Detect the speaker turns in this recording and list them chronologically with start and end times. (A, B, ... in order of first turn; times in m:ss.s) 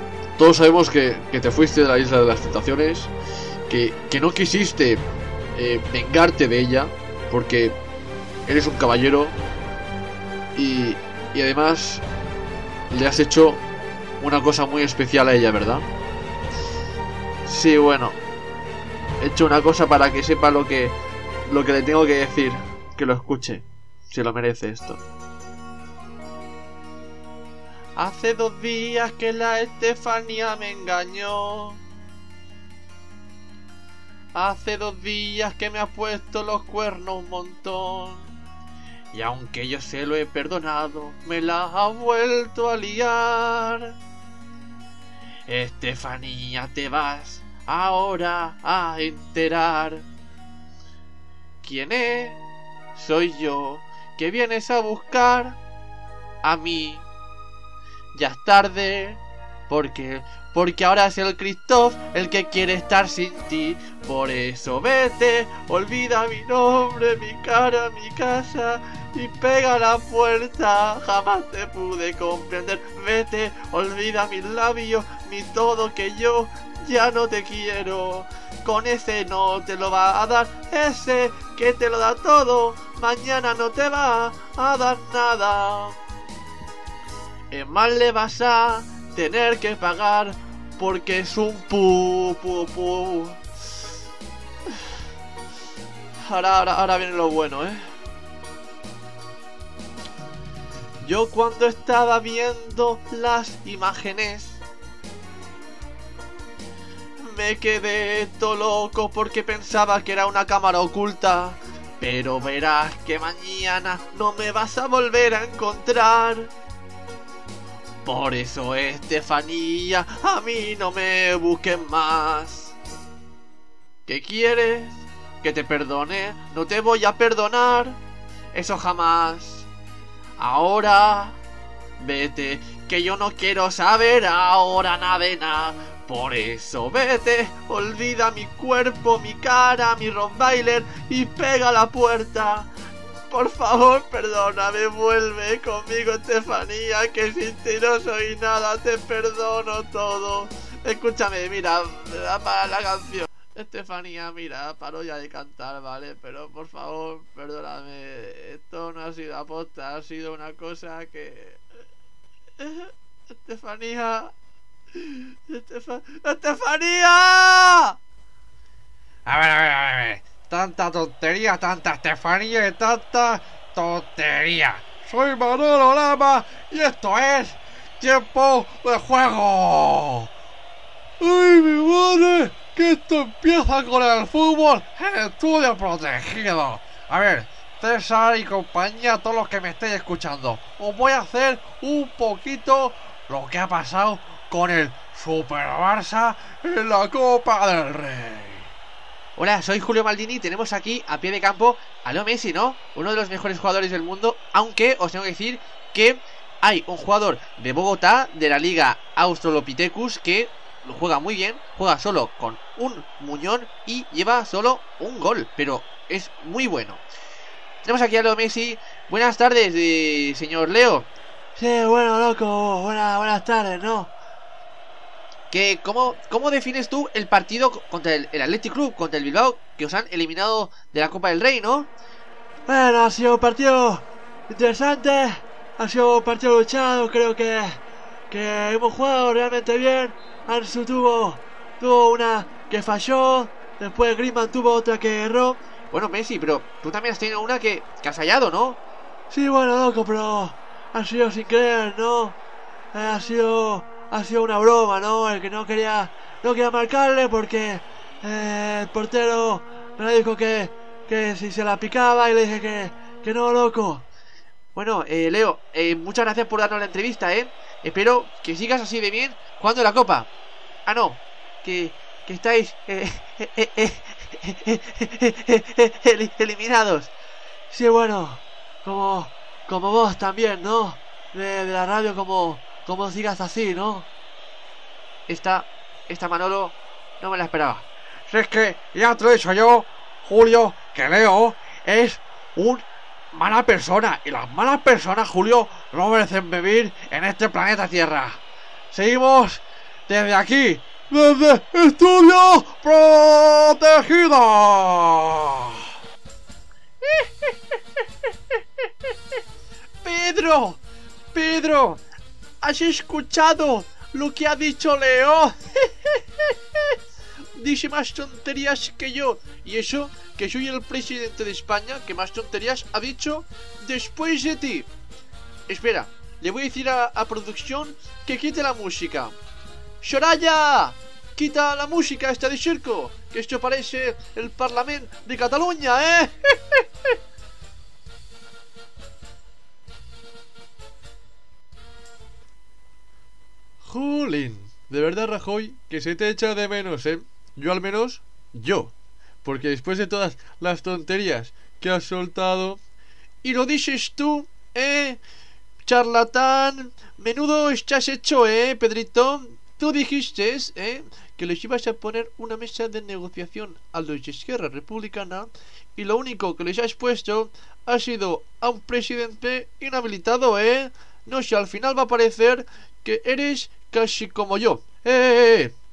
0:00.4-0:03.1 A
0:03.7-0:05.0 A
0:05.5-0:07.8 A
0:08.4-0:09.3 A
0:10.5-0:12.0 A
0:12.9-0:13.6 A
0:14.2-0:15.8 A
0:17.4-0:18.2 A
0:19.2-0:20.9 A
0:21.4-0:25.0 A
0:28.0-0:31.8 A
0:34.3-0:38.3 A
0:39.1-0:43.9 A
0:45.5-0:50.0 A
0:51.6-0:52.4 A
0:53.0-0:55.6 A
0:56.4-0:57.0 A
0:58.1-1:26.0 A
1:27.5-1:33.4 A
1:36.2-1:37.8 A
1:41.0-1:44.6 A
1:47.2-1:56.5 A
1:58.0-2:02.7 A
2:04.0-2:08.0 A
2:08.5-2:09.7 A
2:10.4-2:11.4 A
2:12.0-2:22.7 A
2:23.3-2:41.6 A
2:42.6-2:42.9 A
2:43.4-2:44.3 A
2:45.0-2:48.0 A
2:49.2-3:00.3 A
3:01.2-3:18.7 A
3:19.4-3:37.0 A
3:37.8-3:44.1 A
3:45.5-3:51.9 A
3:52.7-4:08.8 A
4:09.3-4:12.4 A
4:12.9-4:24.0 A
4:24.7-4:30.3 A
4:30.8-4:37.1 A
4:37.7-4:44.1 A
4:45.3-4:58.4 A
4:58.9-5:05.8 A
5:07.0-5:07.6 A
5:10.0-5:10.8 A
5:11.3-5:12.0 A
5:12.6-5:17.0 A
5:17.6-5:24.9 A
5:25.7-5:29.3 A
5:30.0-5:36.8 A
5:43.8-5:48.9 A
5:49.4-5:52.8 A
5:53.4-5:55.2 A
5:55.8-6:15.7 A